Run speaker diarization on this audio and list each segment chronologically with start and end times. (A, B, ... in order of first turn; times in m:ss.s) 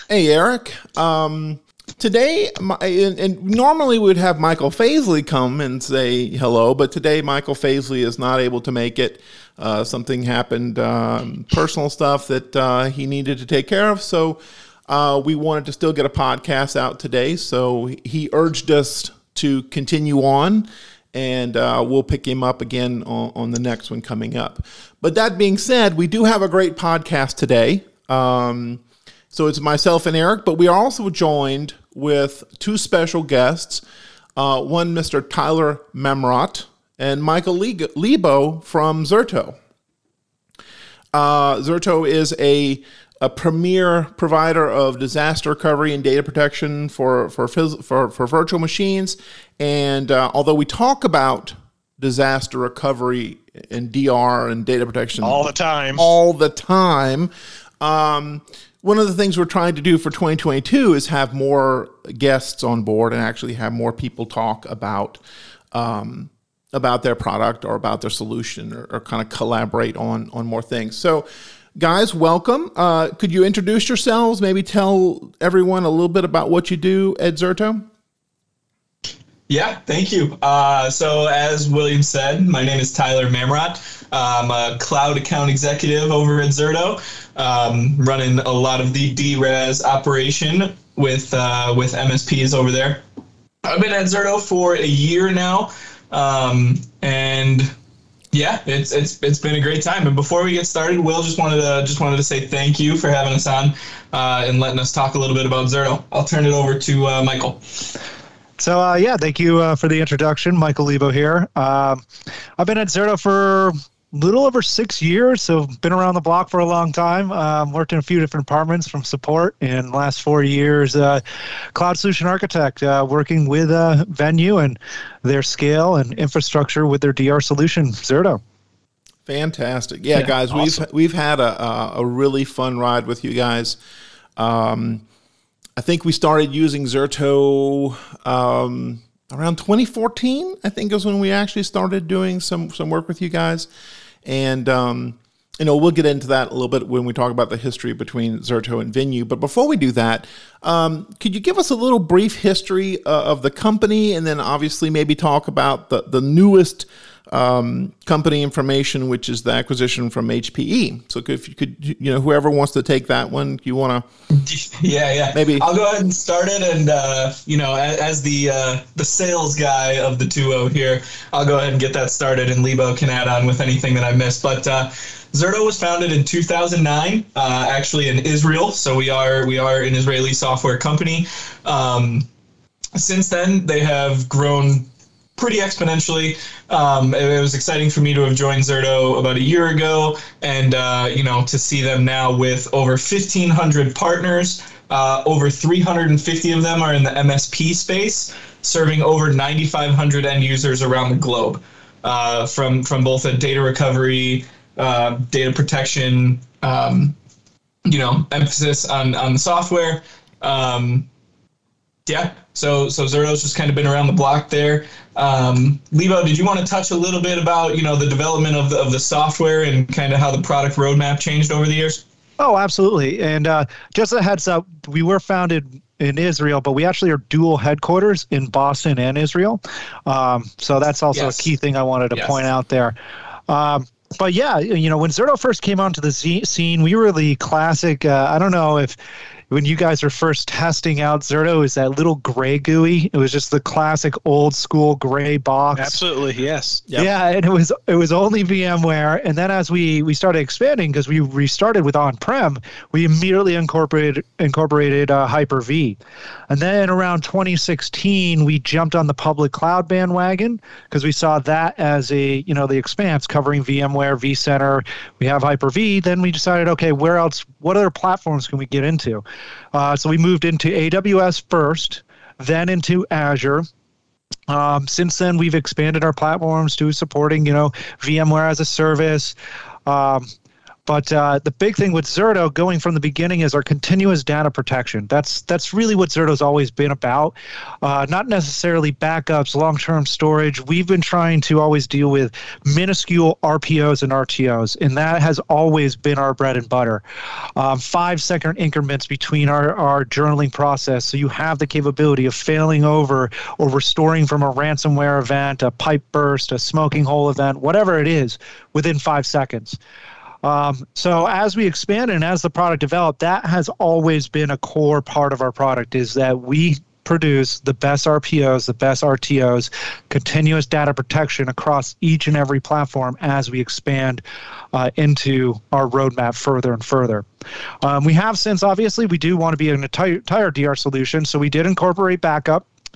0:00.1-0:33.8 A
0:34.4-0:39.6 A
0:41.1-1:05.2 A
0:55.2-0:56.1 B
1:05.7-1:11.3 A
1:11.8-1:17.9 A
1:19.5-1:33.0 C
1:33.6-1:37.7 C
1:38.3-1:47.6 C
1:48.6-1:52.0 D
1:52.6-2:01.2 D
2:01.8-2:08.4 D
2:09.3-2:13.8 A
2:14.4-2:15.0 A
2:15.8-2:23.7 A
2:24.2-2:44.0 A
2:44.3-3:02.3 C
2:45.3-2:45.7 A
3:03.0-3:27.2 C
3:27.9-3:31.1 C
3:32.1-3:42.0 C
3:42.4-3:53.0 D
3:51.1-3:51.5 C
3:52.1-3:52.4 C
3:53.5-3:59.0 D
3:59.5-4:06.0 D
4:05.8-4:06.8 B
4:07.0-4:16.0 D
4:16.5-4:33.7 D
4:34.5-4:39.4 D
4:39.9-4:40.3 D
4:40.9-4:57.0 D
4:57.6-5:09.8 D
5:10.4-5:27.3 D
5:27.8-5:32.7 D